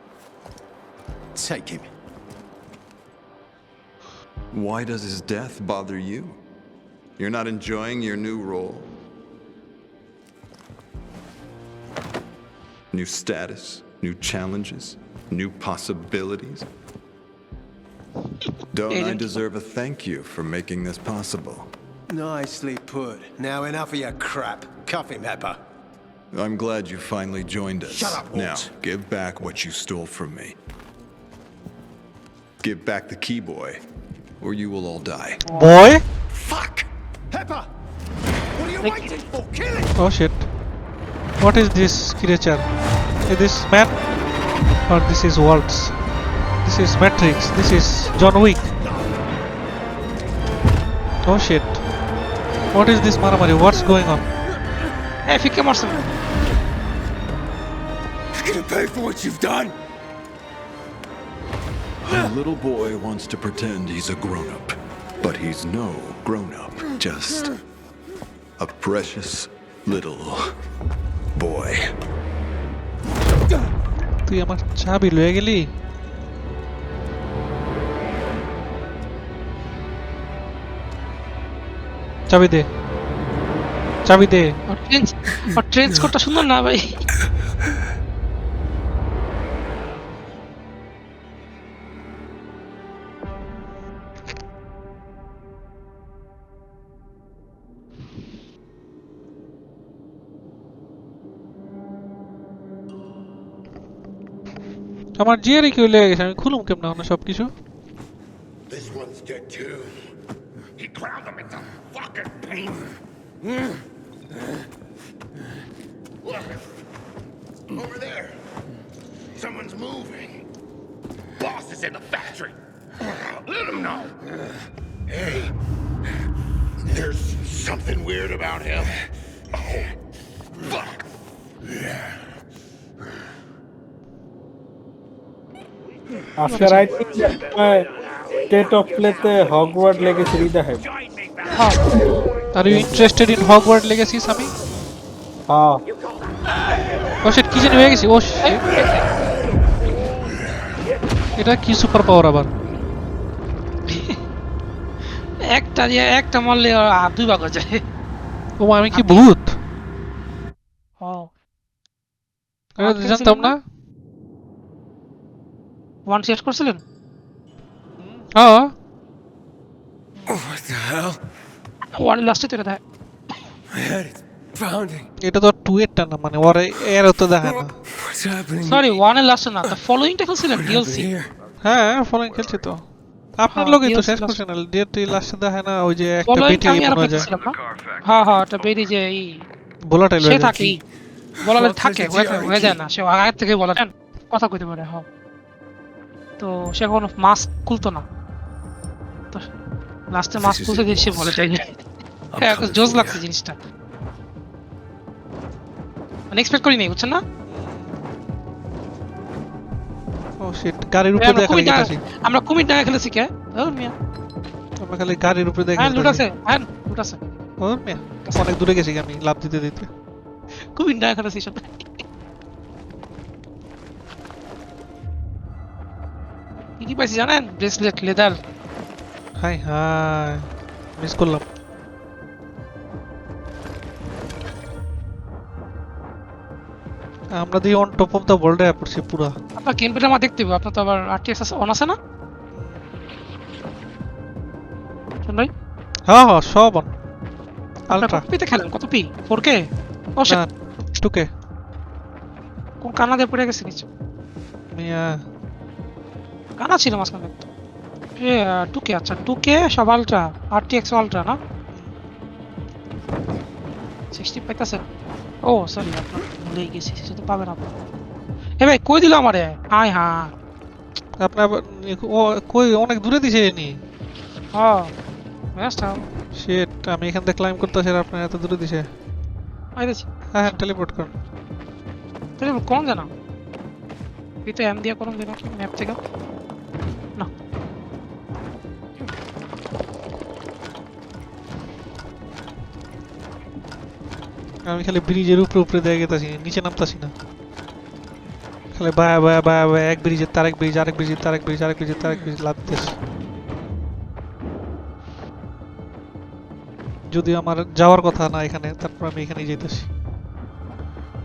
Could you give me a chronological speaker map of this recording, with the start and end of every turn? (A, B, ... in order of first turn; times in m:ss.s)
0:01.3-0:01.9 A
0:04.5-0:06.4 B
0:07.2-0:08.9 B
0:12.9-0:16.7 B
0:18.7-0:21.7 B
0:18.9-0:19.4 C
0:22.1-0:25.6 A
0:26.3-0:30.6 B
0:27.8-0:28.7 A
0:32.6-0:33.8 B
0:34.4-0:35.4 B
0:35.5-0:36.0 D
0:36.4-0:37.7 A
0:38.5-0:39.9 A
0:40.0-0:40.5 D
0:41.4-0:42.7 D
0:43.3-0:43.9 D
0:44.9-0:46.0 D
0:46.6-0:48.7 D
0:51.2-0:51.8 D
0:52.7-0:54.2 D
0:55.2-0:56.0 C
0:58.3-0:59.7 E
1:02.0-1:07.5 B
1:08.6-1:10.5 B
1:11.3-1:11.9 B
1:14.2-1:15.7 D
1:22.3-1:22.7 D
1:24.0-1:24.5 D
1:24.7-1:27.0 C
1:45.2-1:47.5 D
1:48.7-1:50.0 F
1:50.8-1:52.9 F
1:56.2-1:56.6 F
1:57.7-1:58.4 F
1:59.3-2:00.4 F
2:01.4-2:04.2 F
2:05.1-2:05.5 F
2:06.8-2:09.0 F
2:09.5-2:09.9 F
2:10.6-2:11.0 F
2:16.4-2:17.9 G
2:16.5-2:16.8 C
2:18.5-2:20.8 G
2:21.5-2:21.8 C
2:22.5-2:24.5 D
2:22.7-2:23.1 G
2:25.5-2:25.8 G
2:27.2-2:28.7 D
2:28.4-2:28.8 C
2:31.4-2:32.5 D
2:33.9-2:34.2 C
2:35.4-2:37.8 C
2:38.6-2:39.6 D
2:38.9-2:39.2 C
2:41.0-2:41.3 C
2:42.8-2:43.5 C
2:42.8-2:43.6 D
2:46.1-2:46.8 C
2:48.0-2:48.7 D
2:50.3-2:51.2 E
2:51.9-2:52.8 C
2:53.7-2:55.1 E
2:55.2-2:57.7 D
2:57.9-2:59.0 E
2:58.6-3:01.1 C
3:00.5-3:01.3 E
3:01.6-3:02.8 D
3:03.4-3:07.3 D
3:03.5-3:04.4 C
3:06.2-3:09.4 C
3:09.8-3:10.8 D
3:10.2-3:10.8 C
3:11.4-3:15.0 C
3:11.6-3:12.7 E
3:16.4-3:18.0 C
3:20.1-3:21.7 C
3:20.4-3:21.3 E
3:22.3-3:23.2 E
3:22.4-3:23.6 C
3:26.3-3:27.2 C
3:27.5-3:27.9 D
3:30.4-3:32.0 D
3:31.2-3:33.9 C
3:34.8-3:36.2 D
3:35.8-3:37.2 C
3:37.6-3:39.9 D
3:40.6-3:42.0 C
3:46.8-3:48.4 C
3:49.4-3:50.5 D
3:51.0-3:51.4 D
3:57.3-3:59.3 D
3:59.6-4:02.0 C
4:02.6-4:02.8 D
4:05.2-4:05.5 C
4:06.1-4:06.9 D
4:07.9-4:08.2 D
4:07.9-4:10.4 C
4:10.3-4:11.3 D
4:12.8-4:13.9 C
4:14.7-4:15.2 D
4:16.6-4:17.5 C
4:18.2-4:21.4 C
4:24.1-4:24.8 C
4:25.4-4:27.7 C
4:28.6-4:30.3 C
4:31.2-4:33.8 D
4:34.5-4:34.9 C
4:35.5-4:36.1 C
4:36.3-4:38.9 D
4:39.8-4:40.6 C
4:40.3-4:41.1 D
4:42.4-4:43.1 C
4:44.4-4:46.0 C
4:54.6-4:57.1 D
4:58.7-5:03.0 D
5:07.1-5:09.9 D